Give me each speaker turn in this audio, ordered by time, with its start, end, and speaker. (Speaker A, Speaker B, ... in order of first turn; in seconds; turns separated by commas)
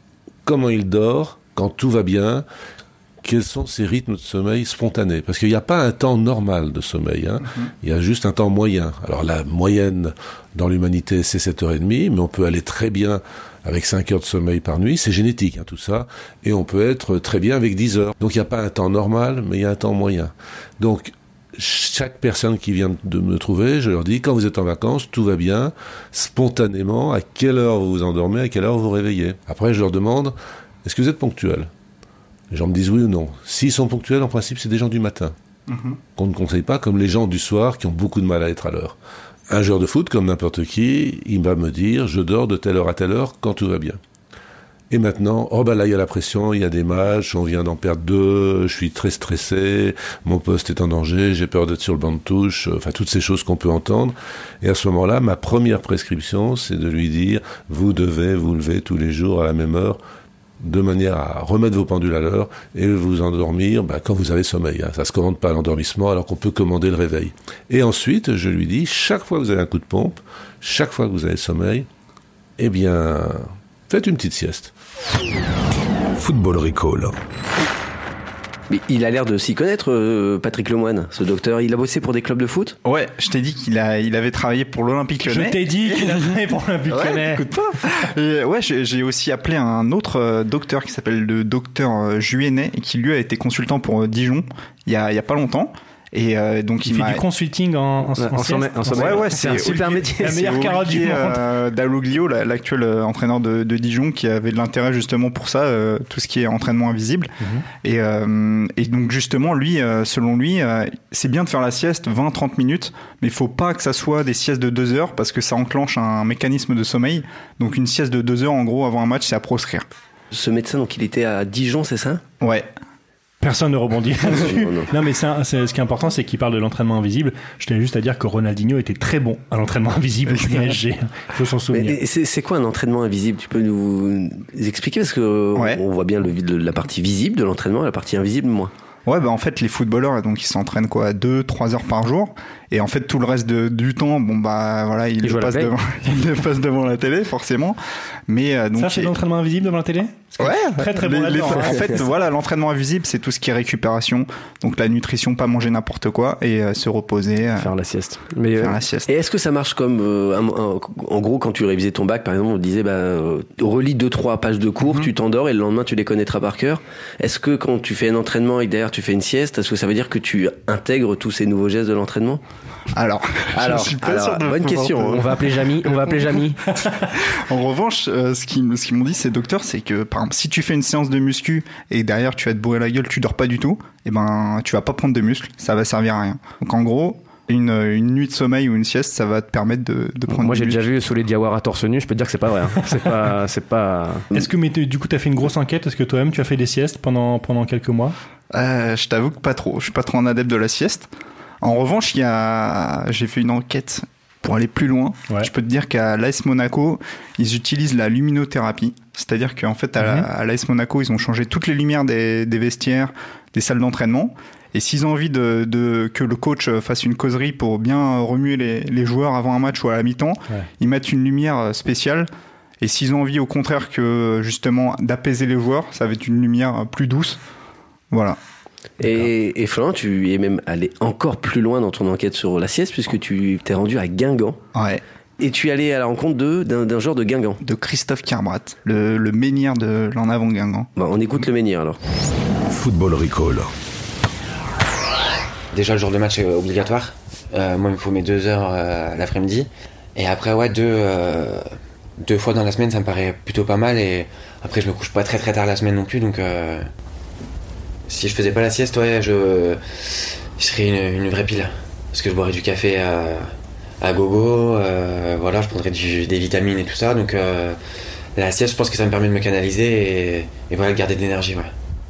Speaker A: 0.5-2.5, Speaker A: 3.2-31.7, Speaker A: 32.5-35.3, Speaker B: 35.7-36.0, Speaker A: 36.2-39.0, Speaker A: 39.5-44.0, Speaker A: 44.9-60.0, Speaker A: 60.6-71.9, Speaker A: 72.6-74.7, Speaker C: 76.2-77.1, Speaker D: 78.7-82.8, Speaker B: 82.8-86.3, Speaker E: 85.3-87.5, Speaker B: 86.9-97.2, Speaker E: 96.8-101.5, Speaker F: 98.2-100.5, Speaker B: 98.9-107.3, Speaker E: 107.4-107.7, Speaker B: 107.8-119.9, Speaker D: 120.3-122.2, Speaker B: 122.4-122.7, Speaker E: 123.4-132.0, Speaker D: 124.3-124.9, Speaker B: 130.3-130.8, Speaker D: 131.7-138.7, Speaker B: 135.6-135.8, Speaker B: 139.1-149.2, Speaker F: 145.2-145.7, Speaker E: 148.8-152.0, Speaker B: 150.4-157.7, Speaker F: 157.6-158.8, Speaker B: 158.6-159.1, Speaker D: 159.1-172.4, Speaker B: 172.9-175.3, Speaker D: 173.5-175.4, Speaker F: 175.0-176.6, Speaker B: 177.2-190.8, Speaker F: 190.3-194.3, Speaker E: 194.3-198.2, Speaker B: 198.5-201.1, Speaker B: 201.6-222.3, Speaker E: 210.0-210.3, Speaker B: 222.8-227.4, Speaker B: 228.1-228.4, Speaker D: 229.0-234.6, Speaker B: 234.7-235.0, Speaker D: 235.4-237.6, Speaker B: 237.6-240.9, Speaker D: 241.0-242.0, Speaker C: 242.7-243.7, Speaker G: 245.7-251.6, Speaker G: 252.2-256.9, Speaker G: 258.1-263.5, Speaker G: 264.0-267.8, Speaker G: 268.4-271.7